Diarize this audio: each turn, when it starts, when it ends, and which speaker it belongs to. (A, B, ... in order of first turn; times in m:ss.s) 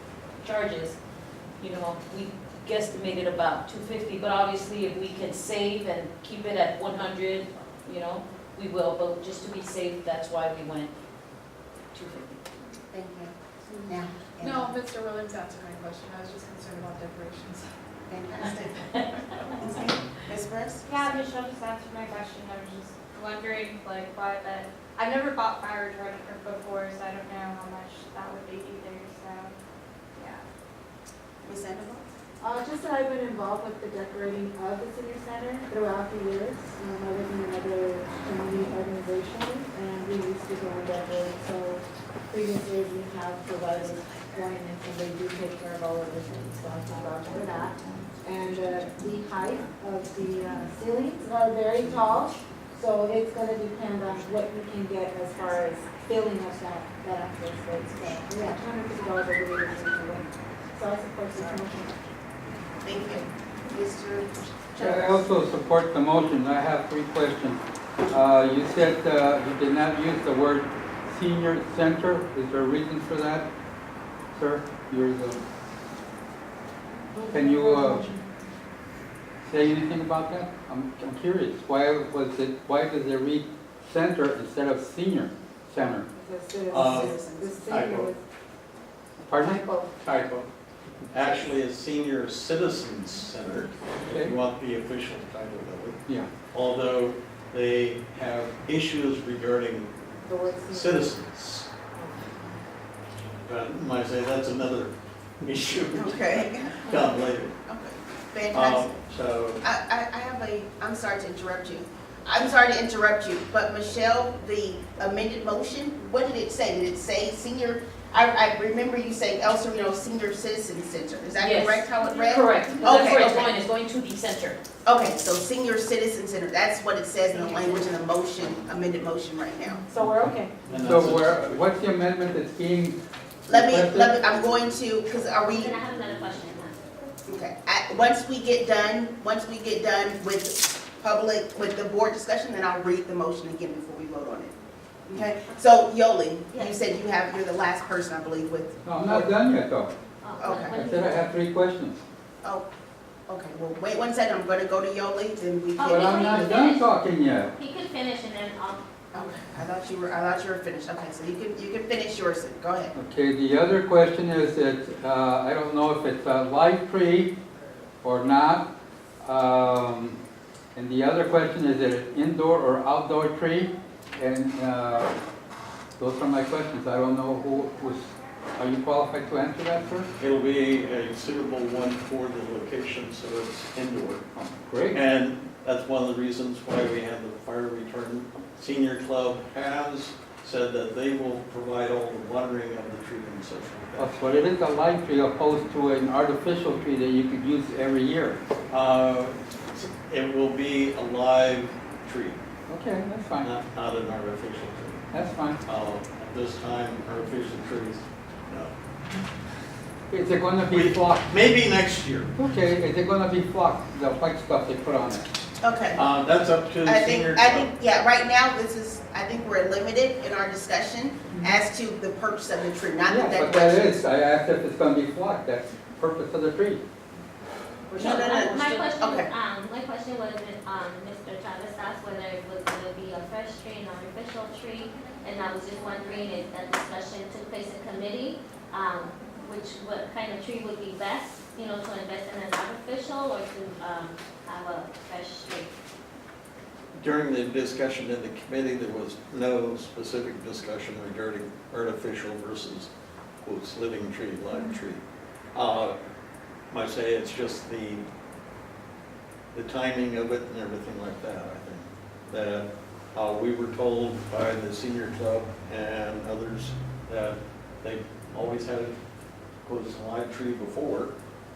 0:00.4-0:01.0 A
0:01.6-0:10.9 A
0:11.9-0:13.3 B
0:13.7-0:17.7 C
0:13.9-0:14.7 B
0:18.1-0:20.9 B
0:18.8-0:19.6 C
0:20.9-0:29.5 D
0:30.2-0:30.4 D
0:31.4-0:32.1 B
0:32.4-1:02.0 E
0:50.9-0:51.2 C
0:57.2-0:58.2 C
0:58.3-0:58.6 B
1:01.4-1:01.6 B
1:02.8-1:05.2 B
1:04.8-1:13.5 F
1:14.3-1:15.4 F
1:17.2-1:18.2 C
1:17.3-1:18.1 F
1:19.4-1:26.1 F
1:26.2-1:28.2 E
1:26.7-1:28.1 G
1:26.7-1:27.6 B
1:29.2-1:29.7 F
1:30.0-1:30.5 G
1:31.1-1:36.0 G
1:34.0-1:34.4 F
1:36.5-1:39.9 G
1:40.2-1:41.1 E
1:40.7-1:41.7 G
1:43.4-1:44.9 G
1:45.4-1:46.3 G
1:45.9-1:46.9 B
1:46.8-1:47.5 G
1:47.6-1:49.0 B
1:48.5-1:49.6 G
1:49.6-2:03.6 B
2:01.4-2:04.6 A
2:04.8-2:09.9 B
2:09.7-2:10.0 C
2:10.0-2:10.6 E
2:10.1-2:14.2 F
2:10.7-2:11.6 G
2:13.5-2:15.8 B
2:15.5-2:16.8 H
2:17.2-2:24.6 B
2:25.1-2:29.3 B
2:28.8-2:29.9 F
2:30.2-2:31.1 H
2:30.4-2:30.8 B
2:30.6-2:32.0 F
2:33.3-2:36.4 B
2:35.8-2:36.9 H
2:35.8-2:37.5 F
2:37.6-2:38.8 H
2:39.1-2:42.9 B
2:43.0-2:47.4 F
2:48.0-2:48.7 F
2:49.2-2:50.2 F
2:50.8-2:55.2 F
2:56.0-3:00.1 F
3:00.2-3:04.2 G
3:04.3-3:05.0 F
3:04.9-3:14.2 G
3:14.0-3:18.4 F
3:18.7-3:22.4 G
3:22.7-3:23.5 F
3:23.4-3:25.0 G
3:25.1-3:25.6 F
3:25.7-3:28.7 G
3:30.1-3:31.3 F
3:30.7-3:32.3 G
3:32.4-3:35.3 F
3:35.6-3:36.1 B
3:36.0-3:37.7 G
3:36.8-3:44.0 B
3:43.1-3:46.8 F
3:47.9-3:49.3 B
3:48.0-4:05.7 H
4:07.0-4:12.9 G
4:13.4-4:15.0 G
4:15.6-4:16.0 G
4:16.7-4:18.0 G
4:19.5-4:29.0 G
4:29.7-4:31.1 G